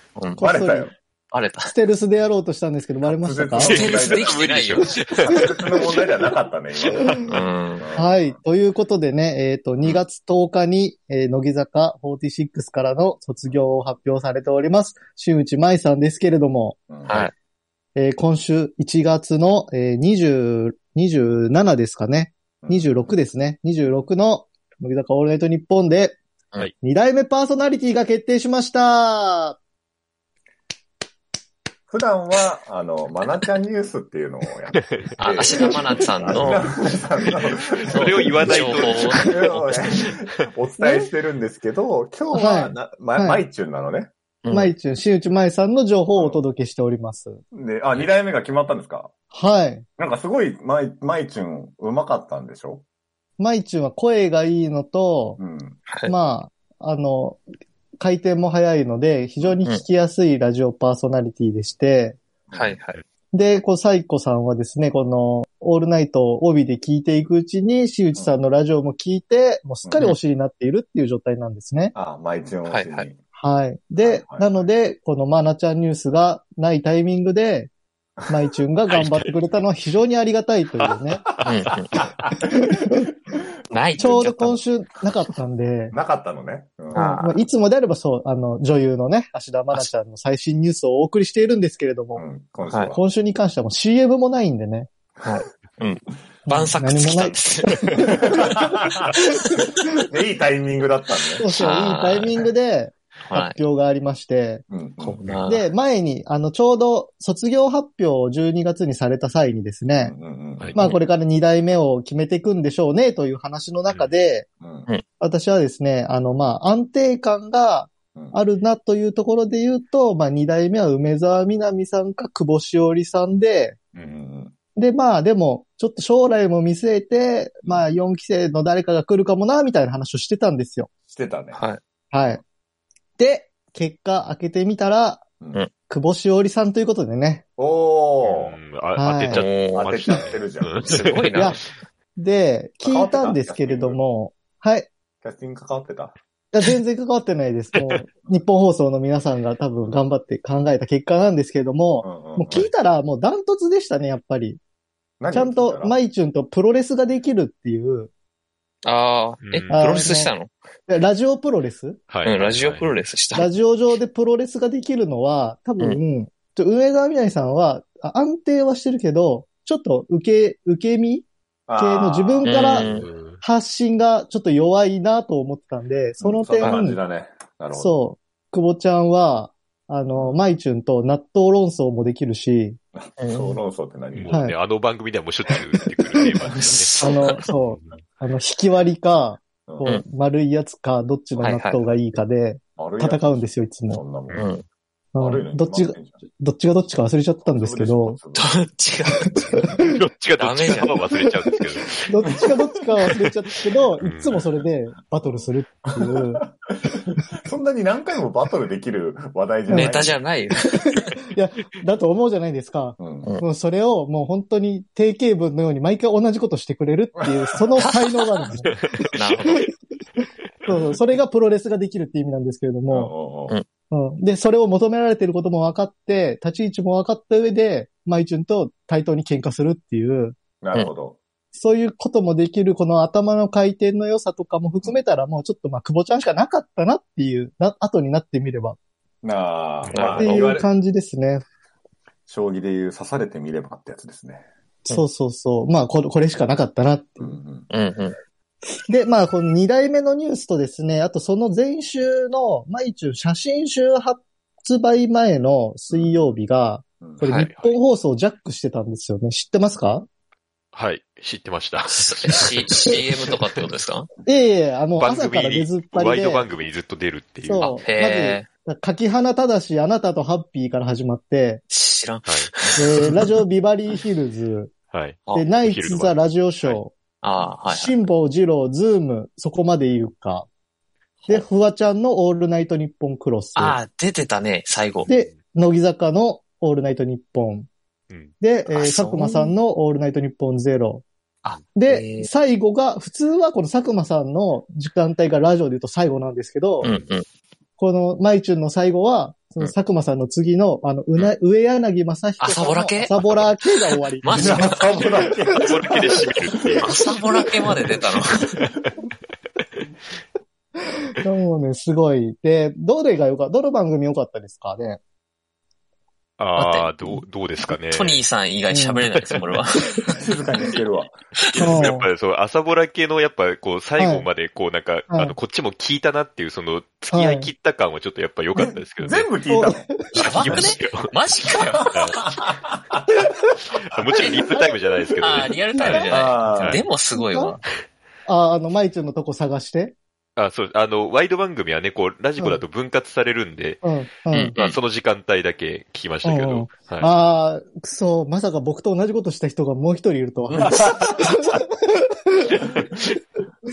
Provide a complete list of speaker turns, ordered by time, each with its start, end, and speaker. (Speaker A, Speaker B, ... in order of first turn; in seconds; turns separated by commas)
Speaker A: 0.1-0.4, Speaker B: 0.4-0.9, Speaker C: 0.4-0.9, Speaker A: 1.3-1.7, Speaker B: 1.6-3.7, Speaker C: 3.0-8.4, Speaker A: 3.6-5.5, Speaker D: 3.6-5.5, Speaker B: 6.8-7.2, Speaker A: 7.2-7.9, Speaker B: 8.0-16.8, Speaker C: 16.9-17.3, Speaker A: 17.1-17.3, Speaker B: 17.9-26.2, Speaker C: 22.6-23.1, Speaker B: 26.8-29.6, Speaker C: 31.9-44.1, Speaker A: 35.2-36.7, Speaker D: 37.5-39.8, Speaker A: 37.9-39.8, Speaker B: 40.8-41.1, Speaker B: 42.3-43.4, Speaker A: 44.4-44.7, Speaker B: 44.5-47.4, Speaker C: 46.1-46.4, Speaker C: 47.5-49.1, Speaker B: 49.3-49.8, Speaker C: 50.0-52.8, Speaker B: 53.4-55.4, Speaker C: 55.4-55.8, Speaker B: 56.0-57.4, Speaker B: 58.0-62.2, Speaker C: 62.5-62.8, Speaker A: 62.5-63.0, Speaker B: 63.3-71.9, Speaker C: 69.8-70.1, Speaker C: 71.9-73.2, Speaker A: 72.7-73.1, Speaker B: 73.3-77.7, Speaker C: 74.0-74.7, Speaker B: 78.3-81.2, Speaker D: 78.9-79.4, Speaker A: 81.4-82.0, Speaker C: 82.0-82.7, Speaker B: 82.4-83.1, Speaker A: 83.7-84.6, Speaker B: 84.0-85.9, Speaker C: 85.9-87.2, Speaker A: 86.9-87.4, Speaker B: 86.9-92.2, Speaker C: 92.2-93.0, Speaker A: 92.7-92.9, Speaker B: 92.9-94.9, Speaker A: 95.2-98.1, Speaker B: 96.5-98.2, Speaker C: 98.0-99.2, Speaker B: 99.1-99.9, Speaker C: 99.9-101.4, Speaker B: 101.4-104.6, Speaker A: 101.5-102.4, Speaker A: 103.3-103.6, Speaker C: 104.7-105.2, Speaker A: 105.0-105.7, Speaker B: 105.5-110.2, Speaker C: 110.0-110.8, Speaker B: 110.7-114.5, Speaker C: 114.6-114.9, Speaker B: 115.2-123.8, Speaker C: 118.1-118.4, Speaker C: 123.9-124.5, Speaker B: 124.8-130.9, Speaker C: 131.1-131.6, Speaker A: 131.5-131.8, Speaker B: 132.1-132.4, Speaker B: 133.2-135.2, Speaker B: 135.9-137.4, Speaker C: 137.6-138.6, Speaker D: 138.2-141.4, Speaker B: 138.9-139.4, Speaker A: 139.3-140.2, Speaker C: 139.7-141.1, Speaker A: 140.8-141.7, Speaker B: 141.3-141.6, Speaker B: 142.2-144.9, Speaker C: 142.8-144.0, Speaker C: 145.2-146.1, Speaker B: 146.5-154.6, Speaker C: 152.0-152.7, Speaker C: 155.2-156.0, Speaker B: 155.3-158.1, Speaker A: 158.8-160.5, Speaker D: 159.4-159.8, Speaker B: 159.7-160.3, Speaker B: 160.9-162.0, Speaker D: 162.1-162.9, Speaker A: 162.2-163.5, Speaker B: 163.3-171.2, Speaker C: 171.7-172.8, Speaker B: 171.8-172.9, Speaker A: 172.4-173.1, Speaker D: 172.8-173.4, Speaker B: 173.4-177.0, Speaker C: 176.2-177.9, Speaker B: 177.7-182.8, Speaker C: 183.0-184.3, Speaker A: 183.2-183.6, Speaker D: 184.1-186.9, Speaker B: 184.3-184.5, Speaker C: 186.4-186.9, Speaker A: 186.6-187.4, Speaker B: 187.0-194.0, Speaker D: 187.7-188.0, Speaker C: 189.7-189.9, Speaker A: 191.4-191.8, Speaker C: 192.8-194.5, Speaker A: 194.3-194.6, Speaker B: 195.1-198.2, Speaker C: 195.2-196.2, Speaker C: 197.4-198.5, Speaker A: 198.3-199.7, Speaker D: 199.8-202.4, Speaker A: 200.4-201.0, Speaker B: 202.0-206.4, Speaker C: 202.3-202.5, Speaker D: 204.0-204.4, Speaker C: 206.0-210.2, Speaker B: 209.7-210.1, Speaker A: 209.7-211.0, Speaker B: 210.6-218.7, Speaker C: 213.0-213.3, Speaker C: 217.2-217.8, Speaker D: 218.7-219.1, Speaker A: 219.1-219.7, Speaker B: 220.6-223.1, Speaker C: 222.9-223.5, Speaker B: 223.9-230.3, Speaker C: 230.6-231.2, Speaker B: 231.5-238.8, Speaker C: 239.2-240.7, Speaker D: 239.8-240.2, Speaker A: 239.9-240.5, Speaker B: 240.2-241.4, Speaker C: 242.3-244.4, Speaker B: 244.8-247.4, Speaker C: 247.2-247.7, Speaker A: 247.7-248.2, Speaker B: 248.9-260.1, Speaker C: 255.9-256.3, Speaker A: 257.2-257.5, Speaker D: 257.5-257.8, Speaker D: 260.7-263.0, Speaker A: 261.9-264.1, Speaker B: 264.2-266.4, Speaker D: 265.0-267.7, Speaker B: 267.4-271.6, Speaker A: 267.6-268.5, Speaker A: 271.7-273.3, Speaker B: 272.8-274.7, Speaker D: 274.9-276.8, Speaker B: 275.3-276.9, Speaker A: 277.2-278.0, Speaker B: 277.7-280.5, Speaker B: 281.3-283.8, Speaker A: 283.6-285.1, Speaker B: 285.1-287.7, Speaker B: 288.4-291.0, Speaker A: 288.7-289.6, Speaker A: 291.4-292.3, Speaker B: 291.7-296.9, Speaker A: 296.8-297.2, Speaker B: 297.8-304.8, Speaker A: 302.4-303.4, Speaker A: 304.2-305.1, Speaker C: 304.3-308.0, Speaker D: 305.6-306.9, Speaker A: 306.8-308.5, Speaker B: 311.1-315.0, Speaker D: 316.4-318.2, Speaker A: 316.6-317.1, Speaker A: 317.9-320.1, Speaker B: 318.7-319.1, Speaker D: 319.2-319.6, Speaker C: 320.1-321.2, Speaker D: 321.5-329.3, Speaker A: 321.5-321.8, Speaker B: 321.6-322.1, Speaker B: 324.0-324.3, Speaker B: 327.1-327.5, Speaker C: 328.6-330.7, Speaker B: 329.5-330.2, Speaker D: 330.1-331.1, Speaker A: 330.1-332.1, Speaker C: 331.8-333.2, Speaker D: 331.9-332.2, Speaker D: 333.7-336.8, Speaker C: 335.2-336.8, Speaker A: 335.2-337.6, Speaker B: 337.1-337.6, Speaker B: 338.2-339.9, Speaker D: 340.4-343.8, Speaker B: 343.8-344.5, Speaker A: 344.3-344.8, Speaker D: 344.6-347.1, Speaker B: 346.2-352.6, Speaker A: 350.5-350.9, Speaker C: 350.8-351.1